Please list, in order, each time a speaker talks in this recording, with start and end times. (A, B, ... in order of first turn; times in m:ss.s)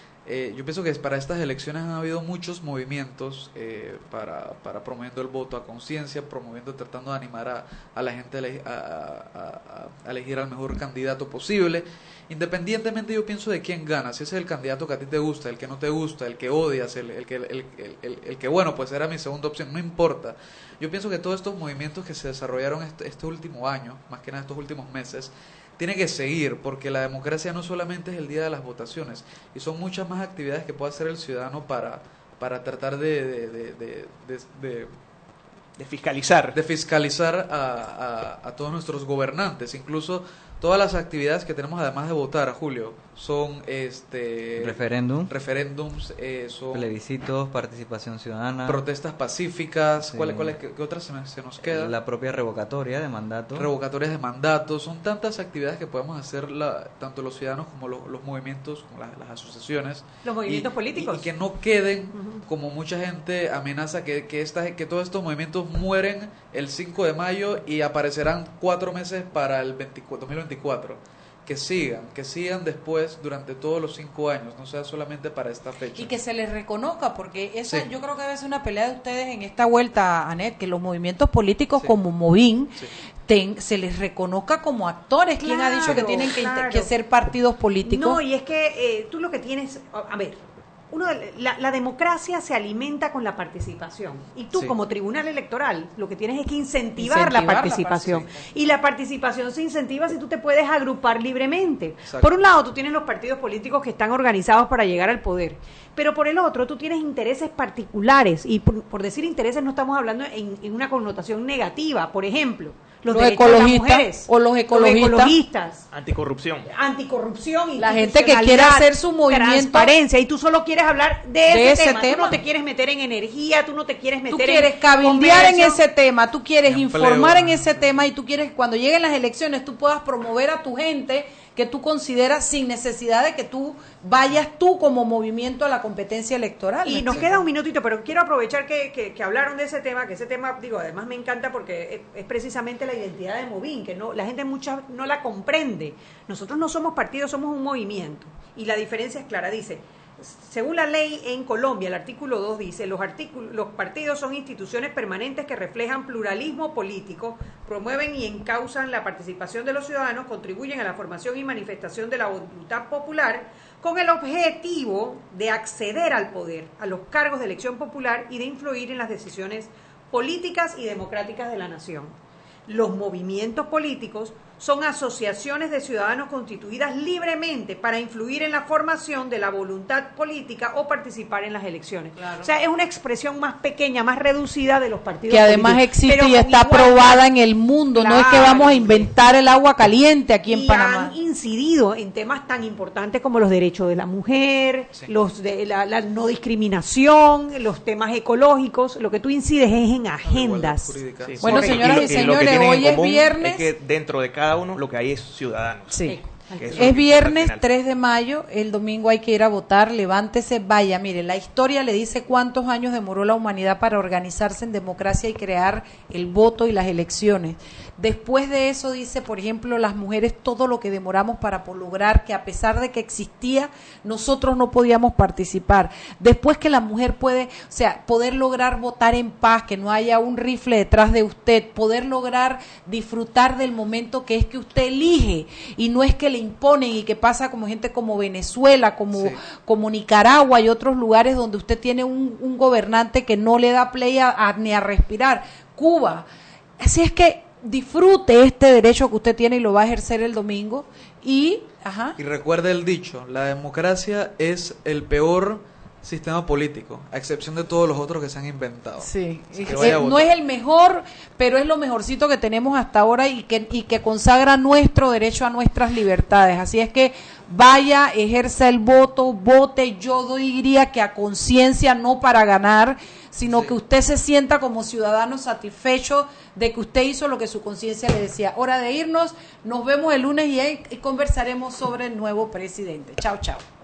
0:00.2-0:34.9 A
0:35.8-0:36.6 B
0:36.5-0:46.9 A
0:44.6-0:45.3 C
0:46.7-0:48.8 C
0:48.6-0:51.9 A
0:50.0-0:50.6 C
0:51.6-0:53.7 C
0:53.6-1:16.2 A
1:00.2-1:01.3 D
1:02.1-1:02.4 D
1:16.0-1:28.2 E
1:25.4-1:26.9 D
1:25.9-1:26.2 A
1:27.8-1:55.8 D
1:37.0-1:38.4 E
1:42.0-1:42.3 A
1:53.1-1:55.3 E
1:55.9-1:56.7 B
1:56.6-2:05.8 D
1:57.8-1:59.9 E
2:01.5-2:02.4 E
2:04.3-2:17.3 E
2:06.7-2:07.8 A
2:16.8-2:52.1 D
2:52.7-3:07.2 D
3:02.2-3:02.5 E
3:05.3-3:11.1 E
3:07.9-3:09.1 D
3:10.5-3:21.0 D
3:20.2-3:22.4 A
3:21.2-3:27.7 B
3:21.4-3:23.7 E
3:25.9-3:26.2 E
3:26.0-3:27.0 D
3:26.7-4:06.2 E
3:59.1-3:59.4 A
4:06.8-4:12.2 E
4:12.2-4:20.3 A
4:19.0-4:43.6 E
4:33.5-4:33.8 A